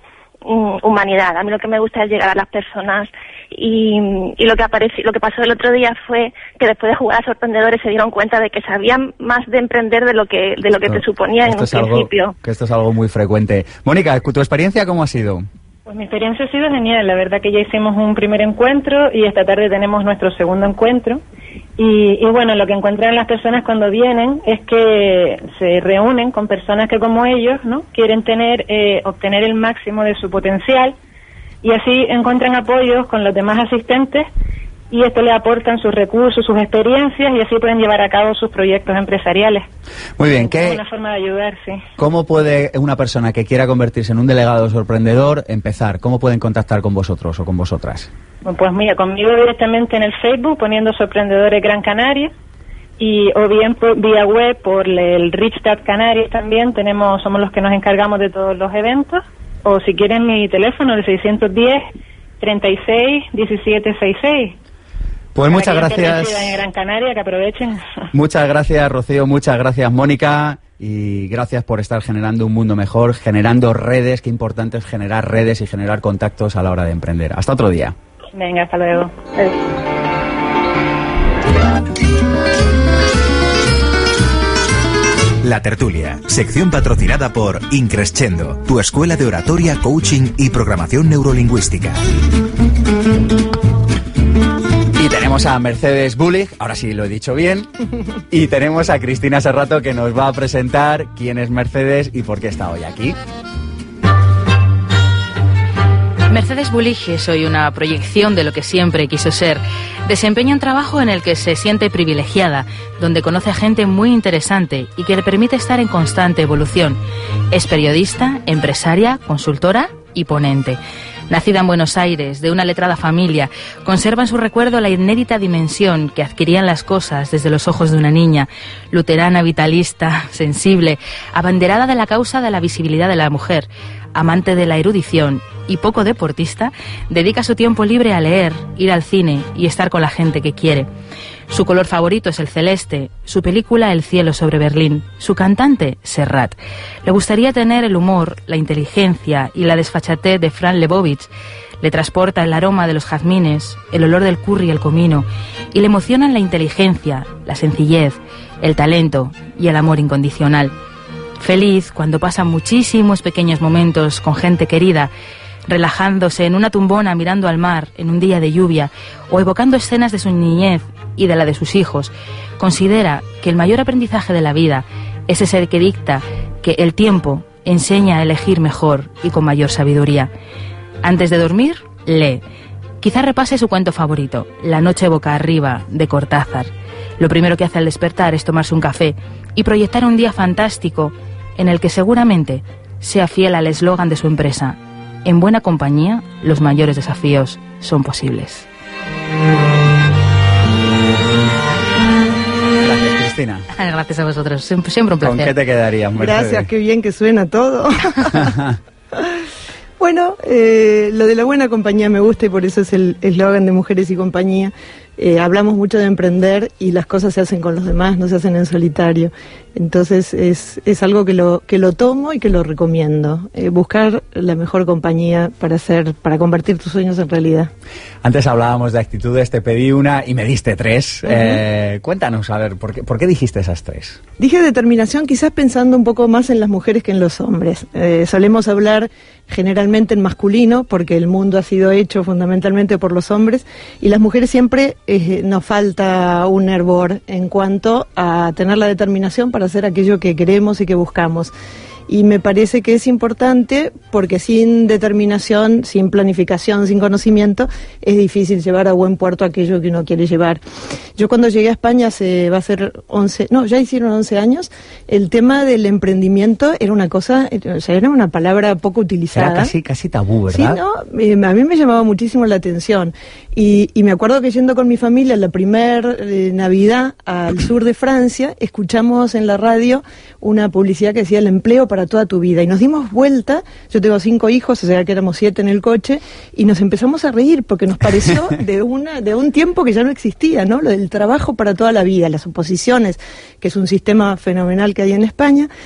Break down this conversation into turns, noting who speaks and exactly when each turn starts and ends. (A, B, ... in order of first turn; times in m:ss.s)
0:00.4-0:12.3 A
0:10.8-0:15.5 B
0:15.8-0:21.2 C
0:21.8-0:30.9 C
0:31.6-0:34.3 C
0:34.9-0:39.6 C
0:40.2-0:40.8 B
0:40.4-0:41.8 C
0:42.0-0:48.1 B
0:48.4-0:52.3 C
0:53.0-1:01.8 C
1:02.4-1:04.5 C
1:05.3-1:06.6 B
1:05.5-1:07.8 C
1:08.1-1:18.0 B
1:18.3-1:19.6 C
1:25.4-1:32.0 D
1:35.0-1:37.7 B
1:38.3-1:43.2 B
1:46.3-1:57.0 E
1:57.5-2:20.9 E
2:21.5-2:40.7 E
2:41.4-2:45.1 E
2:45.7-3:00.3 E
3:01.0-3:02.4 E
3:03.0-3:18.6 E
3:22.8-3:23.7 B
3:23.8-3:25.6 E
3:25.2-3:26.7 B
3:26.2-3:28.6 F
3:28.4-3:28.7 B
3:30.0-3:47.7 F
3:48.2-3:54.2 B
3:51.3-3:51.6 F
3:54.4-4:11.5 F
4:12.1-4:20.6 F
4:21.2-4:29.7 F
4:29.3-4:30.8 B
4:30.5-4:55.7 F